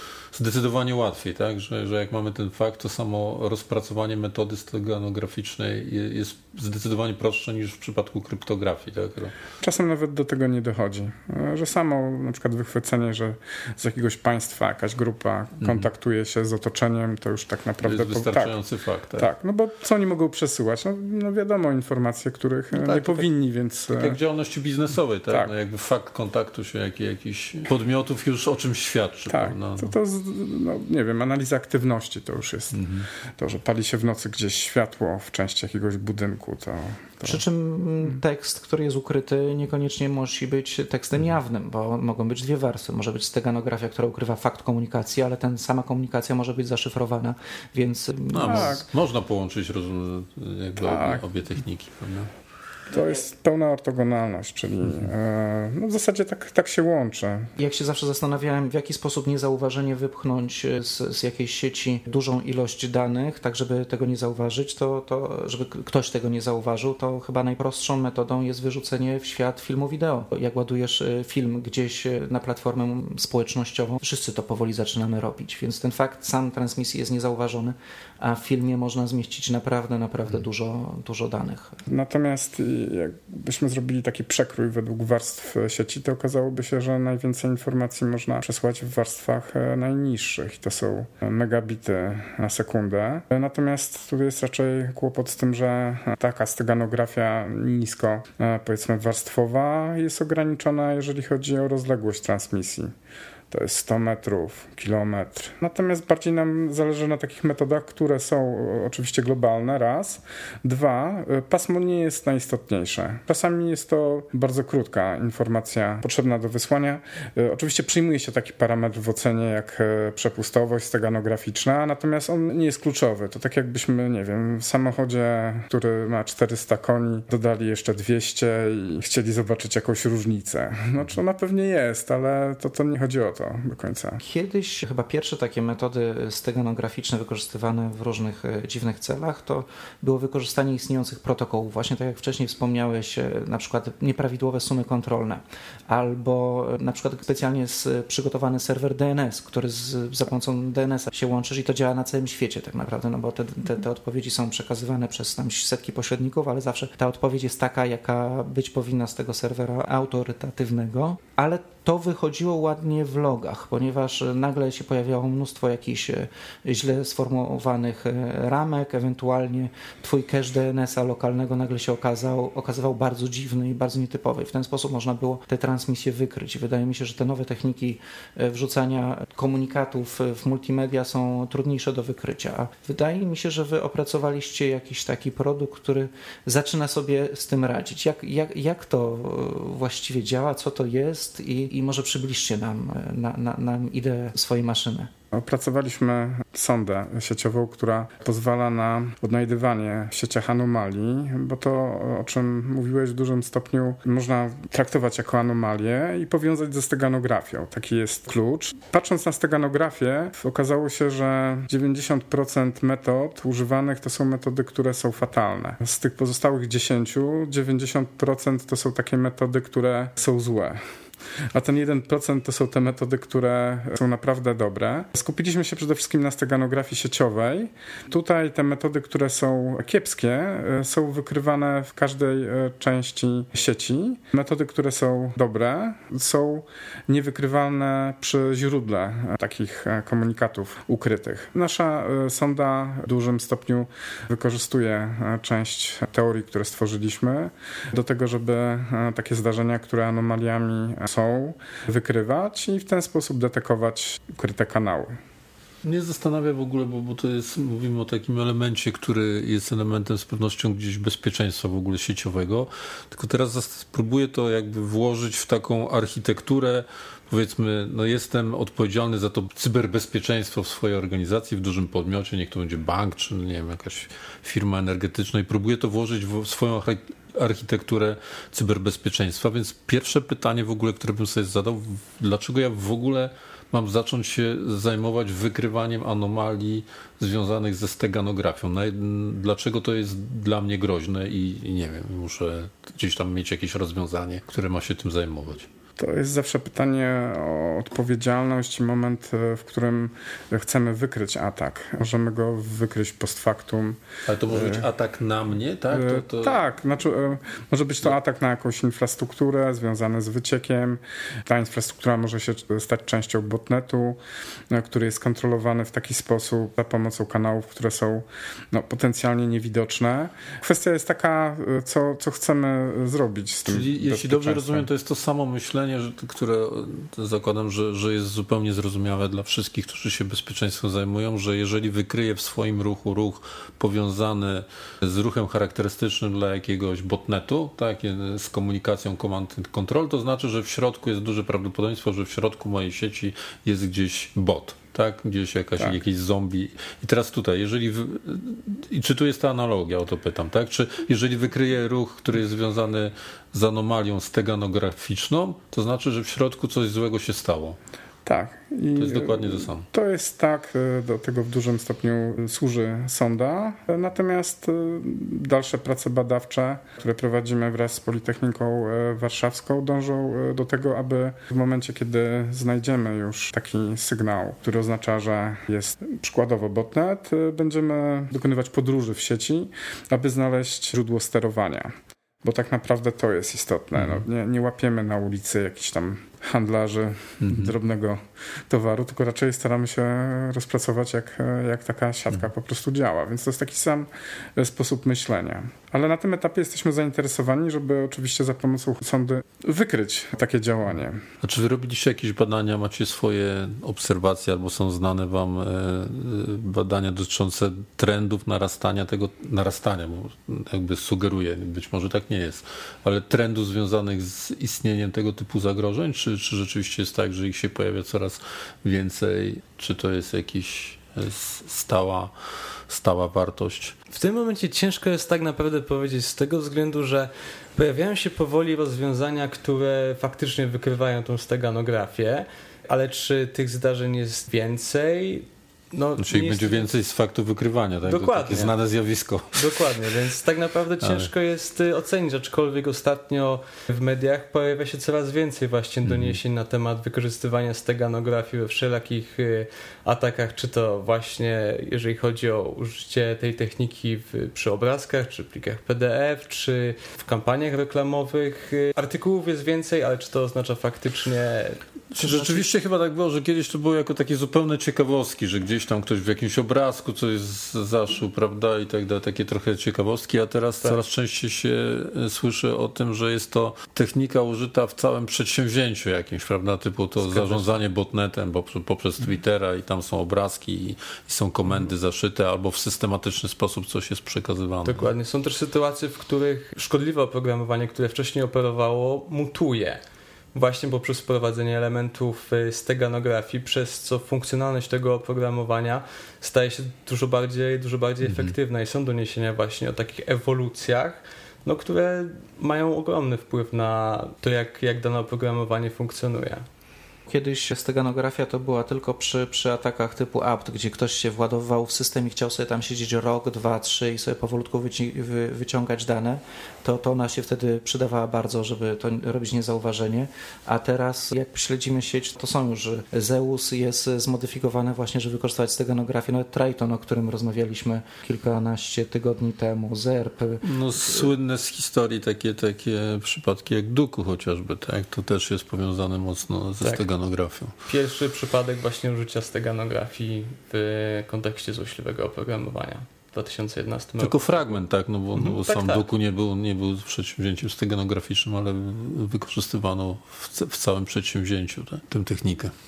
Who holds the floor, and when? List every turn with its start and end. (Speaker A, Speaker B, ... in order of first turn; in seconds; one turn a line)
Speaker A: 0.3-9.3
Speaker B: 9.6-18.6
Speaker A: 17.8-19.3
Speaker B: 19.1-24.2
Speaker A: 23.0-23.2
Speaker A: 24.0-29.9
Speaker B: 29.3-37.4
Speaker C: 37.2-48.8
Speaker A: 48.3-52.3
Speaker B: 48.4-48.8
Speaker B: 50.8-51.2
Speaker B: 52.9-57.5
Speaker C: 57.6-81.8
Speaker B: 81.9-102.9
Speaker B: 103.5-134.2
Speaker C: 134.2-195.1
Speaker B: 195.3-220.8
Speaker B: 221.5-255.1
Speaker A: 255.8-295.7
Speaker B: 296.0-304.0
Speaker A: 304.3-306.6
Speaker B: 304.5-304.9
Speaker B: 305.9-314.2
Speaker B: 314.7-324.9
Speaker A: 323.7-357.8
Speaker B: 358.2-381.9
Speaker A: 358.9-359.9
Speaker B: 382.4-401.2
Speaker A: 401.4-422.3
Speaker A: 422.9-423.9
Speaker D: 424.1-436.9
Speaker A: 436.2-440.0
Speaker D: 438.1-438.8
Speaker D: 439.5-462.6
Speaker A: 441.0-441.3
Speaker A: 446.0-446.4
Speaker A: 462.1-485.1
Speaker D: 477.3-477.7
Speaker D: 484.9-490.0
Speaker D: 490.5-506.6
Speaker C: 507.3-531.3
Speaker A: 530.6-537.7
Speaker D: 537.9-544.5
Speaker A: 544.2-552.7
Speaker D: 545.4-546.0